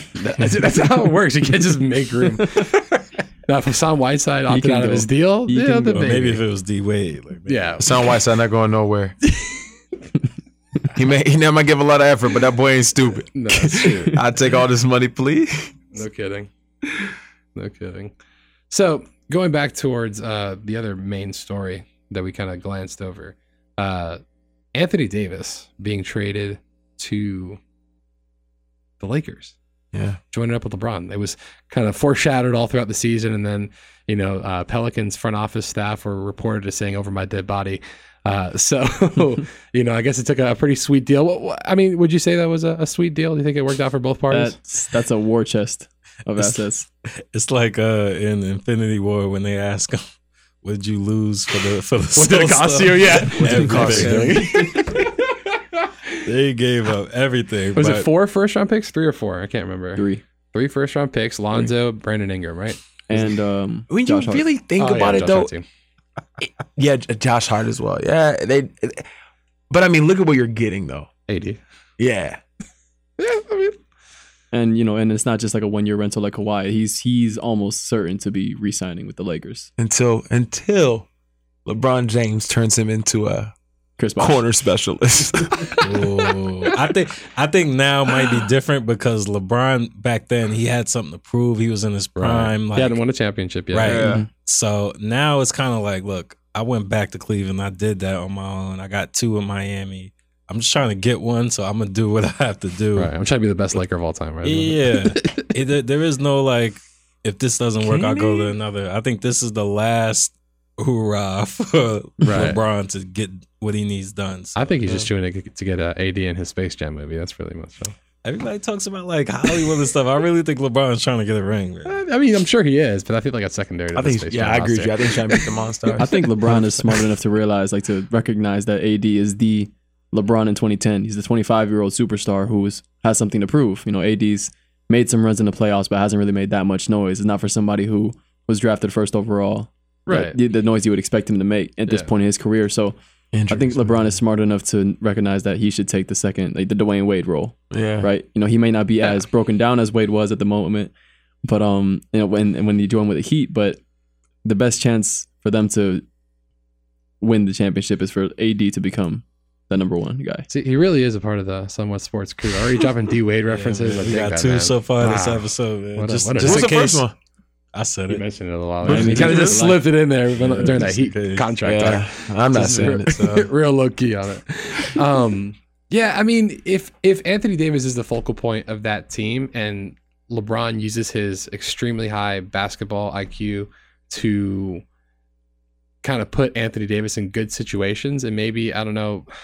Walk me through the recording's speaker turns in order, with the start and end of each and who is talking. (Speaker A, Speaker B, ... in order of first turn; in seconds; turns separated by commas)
Speaker A: 0.1-6.4, Speaker B: 4.5-6.1, Speaker C: 5.9-7.8, Speaker A: 7.5-7.9, Speaker D: 7.8-9.2, Speaker D: 10.9-15.7, Speaker A: 13.3-14.2, Speaker A: 15.9-16.5, Speaker A: 17.6-18.1, Speaker A: 18.7-24.2, Speaker A: 24.8-27.6, Speaker A: 29.0-29.6, Speaker D: 29.9-30.2, Speaker A: 30.3-44.5, Speaker B: 44.3-46.9, Speaker C: 46.4-46.6, Speaker C: 47.3-50.0, Speaker C: 50.6-54.4, Speaker A: 52.2-56.3, Speaker D: 53.4-54.4, Speaker B: 53.6-54.4, Speaker C: 56.2-58.1, Speaker A: 57.8-62.8, Speaker B: 60.0-60.2, Speaker B: 63.1-64.4, Speaker D: 63.9-65.5, Speaker A: 64.8-65.6, Speaker D: 66.4-69.1, Speaker D: 69.7-71.1, Speaker A: 71.3-71.6, Speaker D: 72.0-72.4, Speaker A: 73.2-73.8, Speaker B: 74.5-79.7, Speaker D: 79.8-81.1, Speaker D: 81.7-83.5, Speaker B: 84.0-84.4, Speaker D: 84.2-86.0, Speaker C: 85.8-93.0, Speaker A: 92.2-94.1, Speaker C: 93.7-103.1, Speaker D: 93.8-94.2, Speaker B: 94.0-94.3, Speaker A: 103.0-105.5, Speaker C: 104.4-115.0, Speaker D: 107.8-108.5, Speaker A: 112.2-112.6, Speaker A: 114.6-118.0, Speaker C: 118.2-122.0, Speaker A: 121.8-126.0, Speaker D: 124.0-126.7, Speaker B: 126.0-143.0, Speaker A: 140.1-140.4, Speaker D: 143.3-144.1, Speaker B: 143.5-150.9, Speaker D: 147.7-148.1, Speaker B: 151.4-153.8, Speaker B: 154.4-156.0, Speaker B: 157.2-160.5, Speaker A: 160.5-167.0, Speaker C: 163.5-167.0, Speaker D: 166.4-167.1, Speaker C: 167.7-168.2, Speaker A: 168.1-184.8, Speaker C: 168.8-169.8, Speaker B: 168.9-169.8, Speaker D: 168.9-169.6, Speaker C: 170.3-171.5, Speaker D: 171.6-173.4, Speaker C: 172.6-173.4, Speaker A: 186.0-189.3